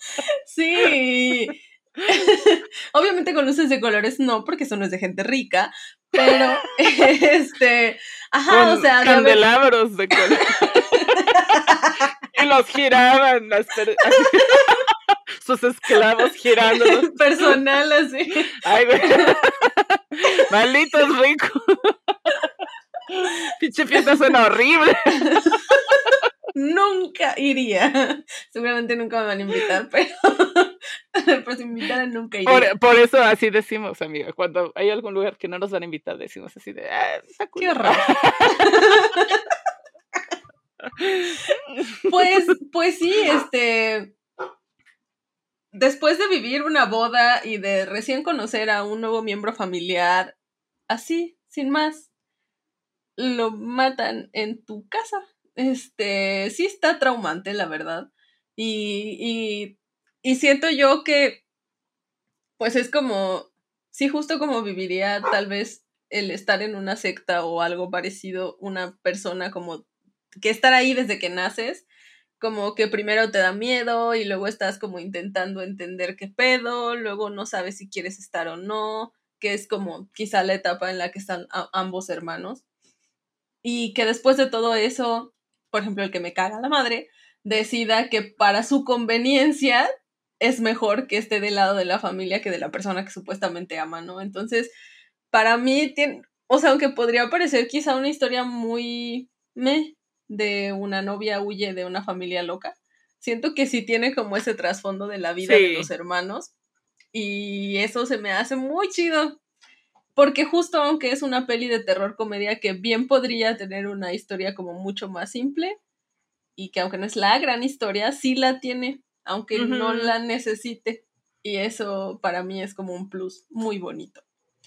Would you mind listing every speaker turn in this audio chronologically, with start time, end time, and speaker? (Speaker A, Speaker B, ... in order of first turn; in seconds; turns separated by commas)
Speaker A: 0.2-9.4, Speaker B: 6.2-6.7, Speaker B: 8.5-11.4, Speaker A: 10.9-12.0, Speaker B: 12.3-17.6, Speaker A: 14.1-14.7, Speaker A: 16.7-19.3, Speaker B: 18.6-22.5, Speaker B: 23.1-26.2, Speaker A: 23.9-24.2, Speaker A: 25.2-32.7, Speaker B: 32.5-38.7, Speaker A: 37.6-39.4, Speaker B: 41.0-42.4, Speaker A: 42.1-44.1, Speaker A: 45.7-50.4, Speaker A: 50.9-52.1, Speaker A: 53.2-61.4, Speaker A: 62.6-69.9, Speaker A: 70.4-71.9, Speaker A: 72.4-82.6, Speaker A: 83.6-89.9, Speaker A: 90.4-94.7, Speaker A: 95.3-106.5, Speaker B: 105.4-105.9, Speaker A: 107.1-109.4, Speaker A: 110.2-115.8, Speaker A: 116.6-124.2, Speaker B: 119.5-120.1